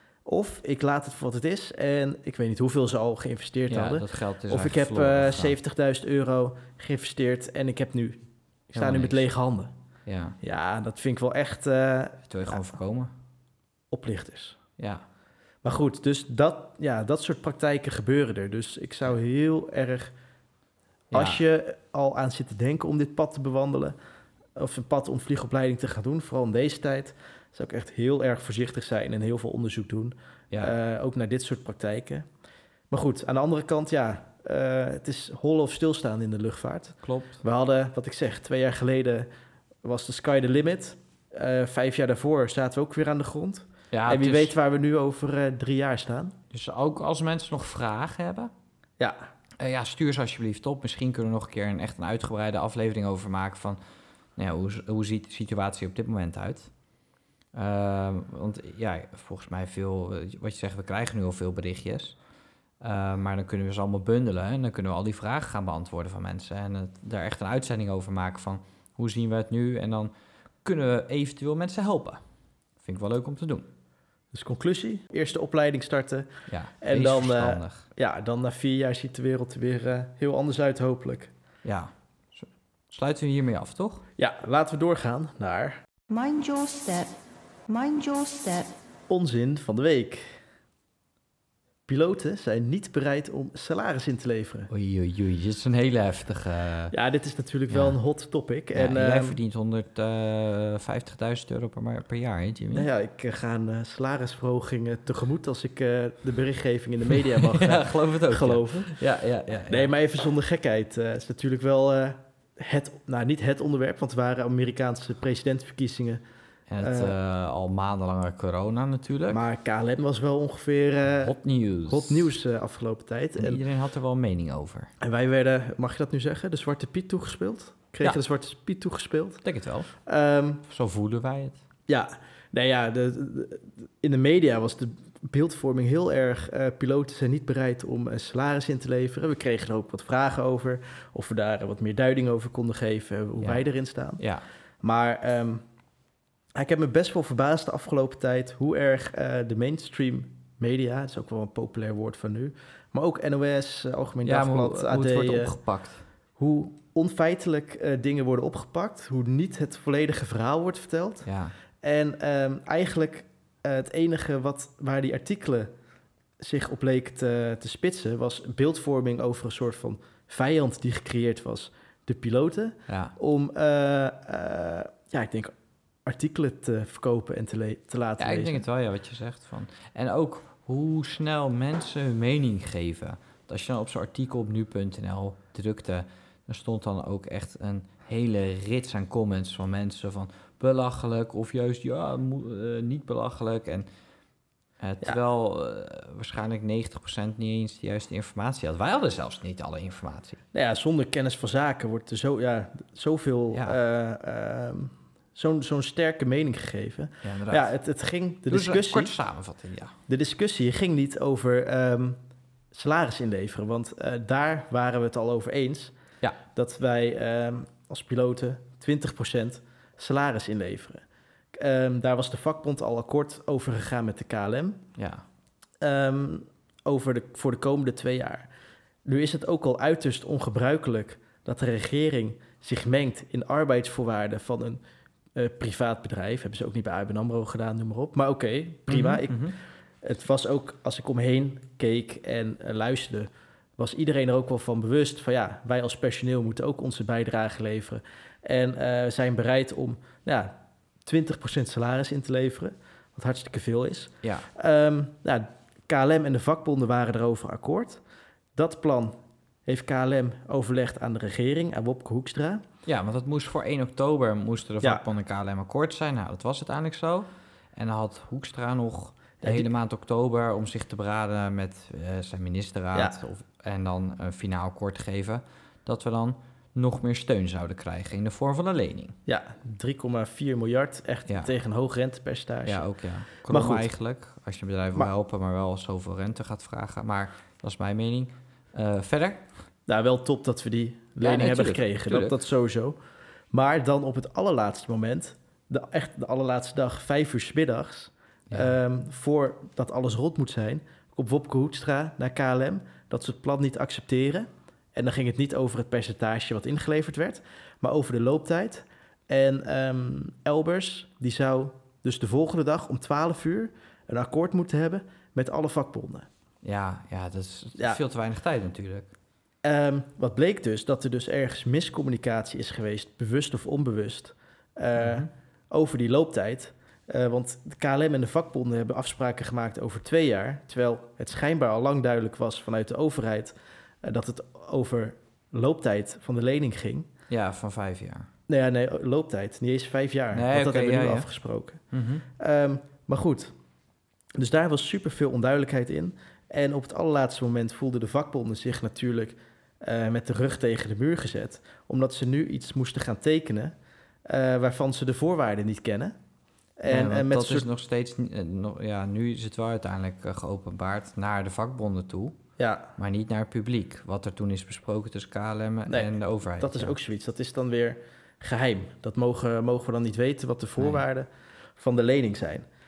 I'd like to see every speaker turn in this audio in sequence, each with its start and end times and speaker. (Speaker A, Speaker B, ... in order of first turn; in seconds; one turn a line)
Speaker A: 0.2-9.7
Speaker B: 3.7-5.6
Speaker B: 8.7-9.3
Speaker B: 10.1-10.3
Speaker A: 10.4-12.6
Speaker B: 12.3-13.1
Speaker A: 13.9-14.6
Speaker B: 14.8-15.0
Speaker A: 15.6-20.1
Speaker B: 21.1-21.4
Speaker A: 21.1-23.9
Speaker A: 24.6-32.3
Speaker A: 32.9-39.3
Speaker B: 37.0-37.4
Speaker A: 39.8-46.4
Speaker B: 43.9-44.5
Speaker B: 46.5-48.5
Speaker A: 49.0-49.2
Speaker B: 49.6-53.8
Speaker B: 54.4-56.7
Speaker B: 57.5-62.2
Speaker B: 62.8-70.1
Speaker B: 70.6-72.2
Speaker B: 72.8-73.7
Speaker A: 74.3-76.3
Speaker B: 76.5-77.8
Speaker A: 76.8-81.3
Speaker B: 81.6-84.0
Speaker A: 84.2-85.8
Speaker C: 86.1-87.1
Speaker C: 87.7-88.7
Speaker A: 89.1-90.4
Speaker A: 91.9-94.7
Speaker B: 94.7-96.9
Speaker A: 96.9-99.4
Speaker B: 97.7-98.0
Speaker B: 98.7-102.9
Speaker A: 102.7-109.0
Speaker B: 107.3-109.9
Speaker A: 109.7-116.2
Speaker B: 116.7-119.4
Speaker A: 116.8-117.1
Speaker A: 119.3-123.6
Speaker B: 121.2-122.3
Speaker B: 123.4-124.9
Speaker A: 125.0-130.6
Speaker B: 129.4-129.9
Speaker B: 130.7-131.6
Speaker A: 131.9-144.2
Speaker B: 144.2-144.4
Speaker A: 144.8-145.6
Speaker A: 146.5-155.6
Speaker B: 154.2-156.0
Speaker A: 156.4-161.3
Speaker B: 161.2-161.5
Speaker A: 161.8-165.7
Speaker A: 166.4-175.5
Speaker B: 172.9-173.1
Speaker A: 176.0-178.6
Speaker B: 178.2-193.9
Speaker B: 194.8-200.4
Speaker A: 200.5-209.1
Speaker B: 207.2-207.7
Speaker B: 208.5-209.9
Speaker A: 210.1-212.2
Speaker A: 212.7-215.9
Speaker A: 216.5-224.8
Speaker B: 225.0-225.2
Speaker A: 225.8-228.5
Speaker A: 229.0-234.8
Speaker A: 235.3-239.5
Speaker B: 238.9-239.5
Speaker A: 240.0-258.0
Speaker B: 254.2-254.5
Speaker A: 258.6-262.6
Speaker B: 262.9-279.1
Speaker A: 269.4-269.7
Speaker A: 279.3-282.9
Speaker B: 282.6-289.5
Speaker A: 283.4-283.9
Speaker A: 289.9-293.0
Speaker B: 291.2-292.3
Speaker A: 293.5-316.3
Speaker B: 316.6-319.1
Speaker A: 319.6-337.1
Speaker B: 325.0-325.3
Speaker B: 337.3-338.3
Speaker A: 338.5-341.8
Speaker B: 340.3-341.3
Speaker B: 341.9-342.2
Speaker A: 342.4-343.5
Speaker A: 344.3-353.7
Speaker A: 354.2-356.1
Speaker A: 356.8-357.7
Speaker B: 356.9-362.4
Speaker A: 362.6-362.9
Speaker B: 362.9-366.9
Speaker A: 365.9-372.6